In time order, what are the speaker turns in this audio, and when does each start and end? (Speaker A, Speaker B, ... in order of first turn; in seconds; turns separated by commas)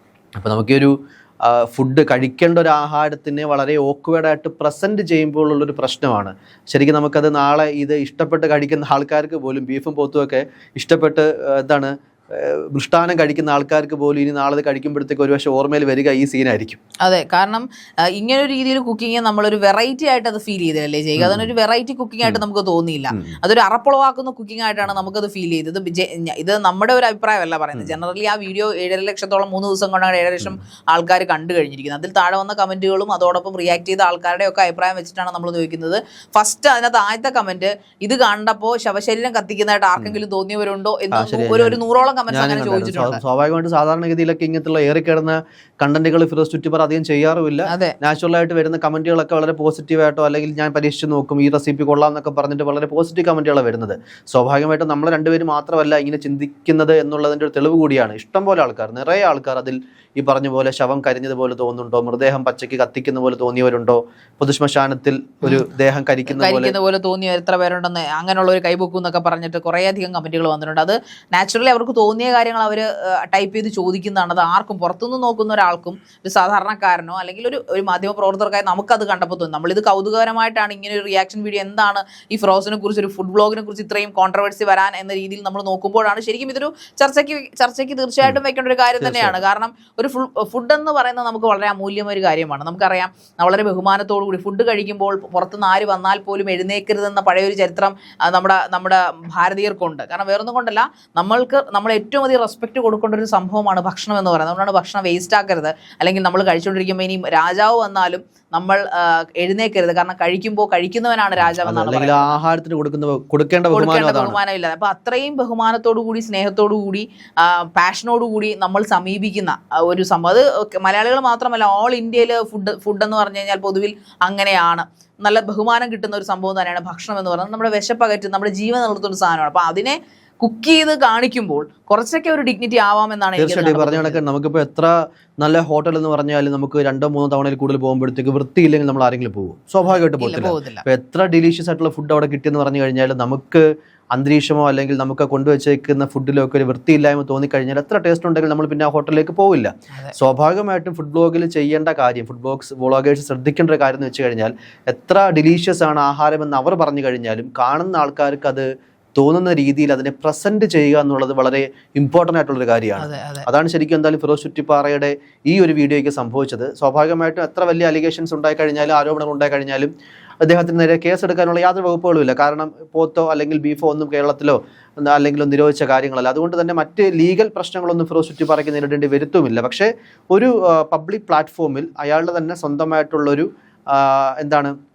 Speaker A: 0.4-0.9, Speaker A: 1.4-16.8, Speaker B: 17.0-43.2, Speaker A: 21.2-21.5, Speaker A: 41.1-66.7, Speaker B: 47.7-48.0, Speaker B: 66.3-112.4, Speaker A: 89.0-89.4, Speaker A: 111.4-114.4, Speaker B: 113.7-134.2, Speaker A: 133.4-169.9, Speaker B: 139.9-140.8, Speaker B: 163.0-163.5, Speaker A: 170.4-184.7